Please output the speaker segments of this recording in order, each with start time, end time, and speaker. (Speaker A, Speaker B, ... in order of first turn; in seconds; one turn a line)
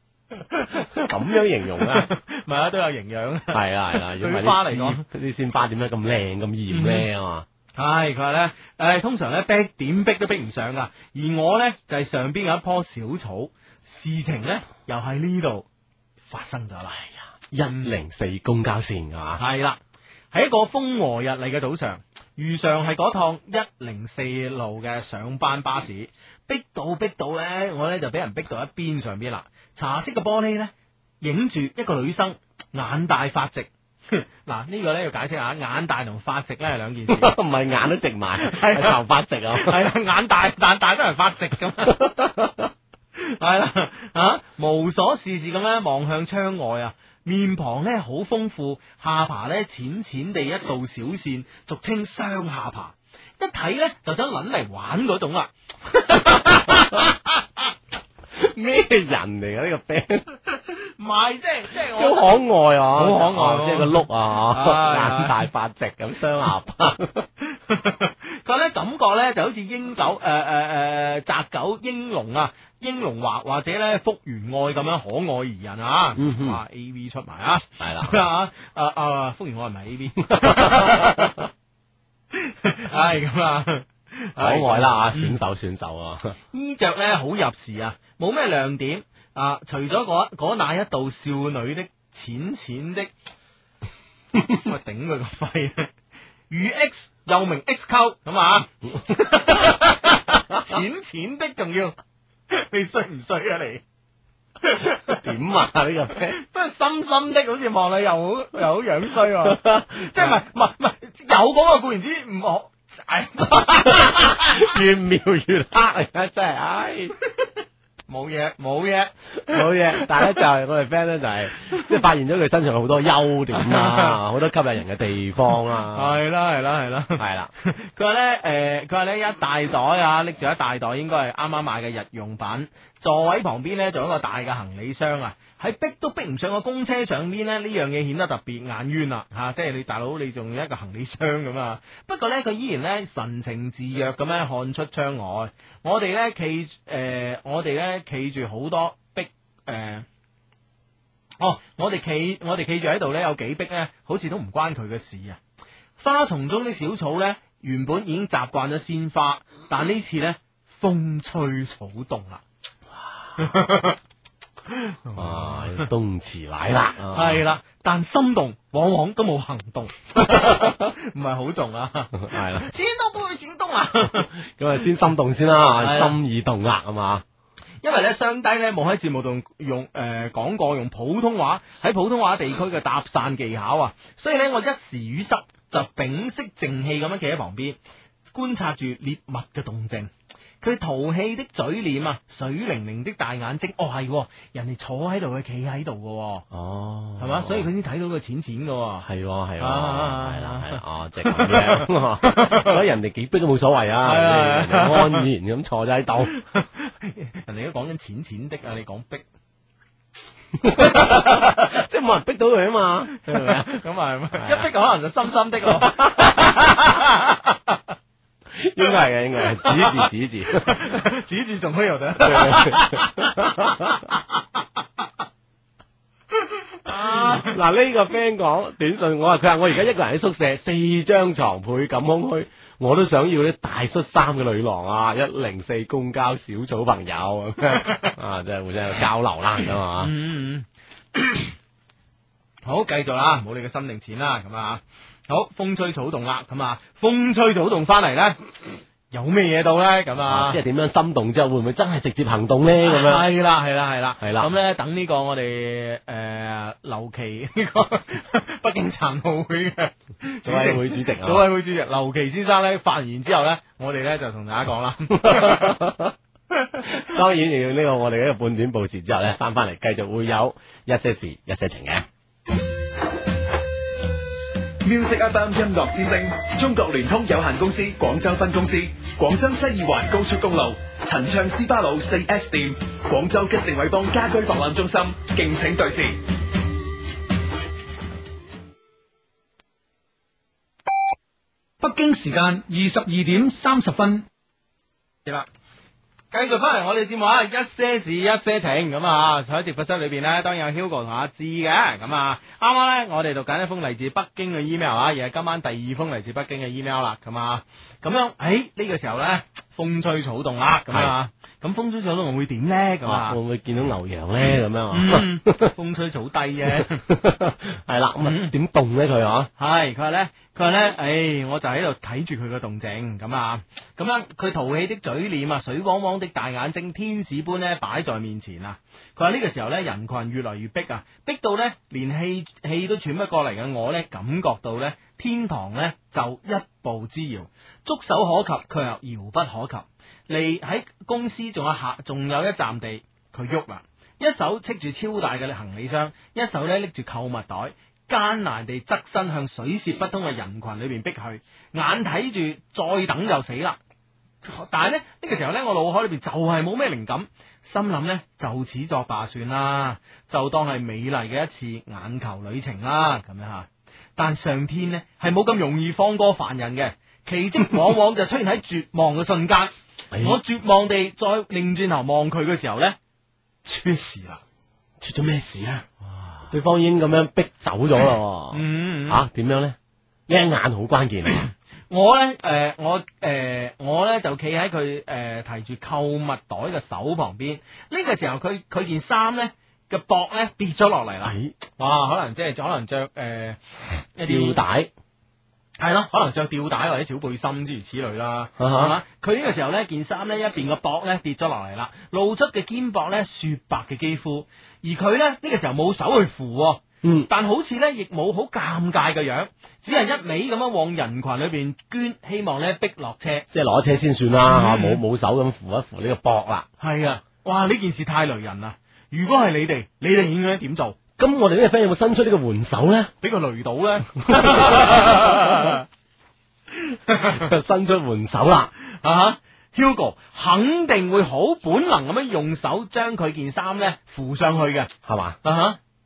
Speaker A: 0.5-1.1
Speaker B: 1.0-2.1
Speaker A: 1.8-5.0
Speaker B: 3.5-7.5
Speaker A: 6.7-7.1
Speaker A: 7.7-15.7
Speaker A: 16.3-17.1
Speaker B: 17.5-19.4
Speaker A: 17.6-17.9
Speaker A: 19.4-19.8
Speaker A: 20.3-37.3
Speaker B: 37.1-39.8
Speaker A: 38.4-39.0
Speaker A: 39.5-42.1
Speaker B: 41.9-42.5
Speaker A: 43.2-57.1
Speaker B: 56.7-57.0
Speaker B: 58.3-60.2
Speaker A: 61.0-62.4
Speaker B: 61.9-67.3
Speaker A: 62.9-65.4
Speaker A: 67.5-81.4
Speaker B: 76.1-76.6
Speaker B: 77.8-78.2
Speaker B: 80.3-81.1
Speaker A: 82.3-85.4
Speaker B: 84.4-86.3
Speaker A: 86.5-93.1
Speaker A: 94.5-95.9
Speaker A: 96.5-101.9
Speaker A: 102.5-103.8
Speaker A: 104.6-105.2
Speaker B: 105.2-106.4
Speaker A: 106.4-114.6
Speaker B: 109.4-110.4
Speaker B: 113.8-117.1
Speaker A: 118.1-120.4
Speaker B: 119.5-126.2
Speaker A: 123.5-124.2
Speaker A: 125.9-150.1
Speaker B: 127.2-127.5
Speaker A: 151.4-155.4
Speaker A: 156.0-162.4
Speaker A: 163.4-164.0
Speaker A: 164.7-165.9
Speaker B: 165.1-167.4
Speaker A: 167.1-174.3
Speaker B: 172.2-172.7
Speaker B: 174.0-177.2
Speaker A: 175.8-176.2
Speaker A: 177.8-187.8
Speaker A: 188.3-190.1
Speaker A: 190.6-196.4
Speaker B: 196.5-197.7
Speaker A: 197.2-199.1
Speaker B: 199.0-206.3
Speaker A: 199.6-202.8
Speaker A: 204.0-205.2
Speaker A: 206.3-209.2
Speaker B: 210.6-213.8
Speaker A: 210.9-211.6
Speaker A: 213.2-217.8
Speaker B: 214.3-214.7
Speaker B: 215.8-216.2
Speaker B: 218.5-220.8
Speaker A: 219.6-223.3
Speaker B: 222.2-224.0
Speaker A: 226.8-227.5
Speaker B: 226.9-240.1
Speaker A: 240.0-241.4
Speaker A: 242.6-248.4
Speaker A: 249.1-250.6
Speaker B: 250.2-253.3
Speaker A: 252.8-265.9
Speaker B: 254.2-254.5
Speaker B: 260.4-261.5
Speaker B: 265.2-266.1
Speaker B: 266.8-272.1
Speaker C: 274.8-286.2
Speaker D: 291.8-294.2
Speaker A: 296.3-313.4
Speaker B: 313.0-315.7
Speaker A: 314.9-317.0
Speaker B: 316.7-319.5
Speaker A: 318.2-318.5
Speaker A: 319.6-353.8
Speaker A: 354.4-372.9
Speaker B: 370.1-370.4
Speaker A: 373.6-374.4
Speaker B: 375.0-375.9
Speaker A: 376.2-376.4
Speaker B: 376.5-379.8
Speaker A: 378.5-379.2
Speaker B: 380.3-381.5
Speaker A: 381.9-393.6
Speaker B: 391.2-391.5
Speaker A: 394.1-394.6
Speaker B: 394.3-394.9
Speaker A: 395.8-413.4
Speaker B: 398.6-398.9
Speaker B: 407.0-407.3
Speaker B: 413.5-416.7
Speaker A: 414.5-415.0
Speaker A: 416.8-420.9
Speaker B: 421.2-423.1
Speaker A: 423.2-425.8
Speaker B: 424.3-425.7
Speaker A: 426.9-427.5
Speaker B: 427.3-428.7
Speaker A: 428.9-434.9
Speaker B: 435.0-435.4
Speaker A: 435.4-435.8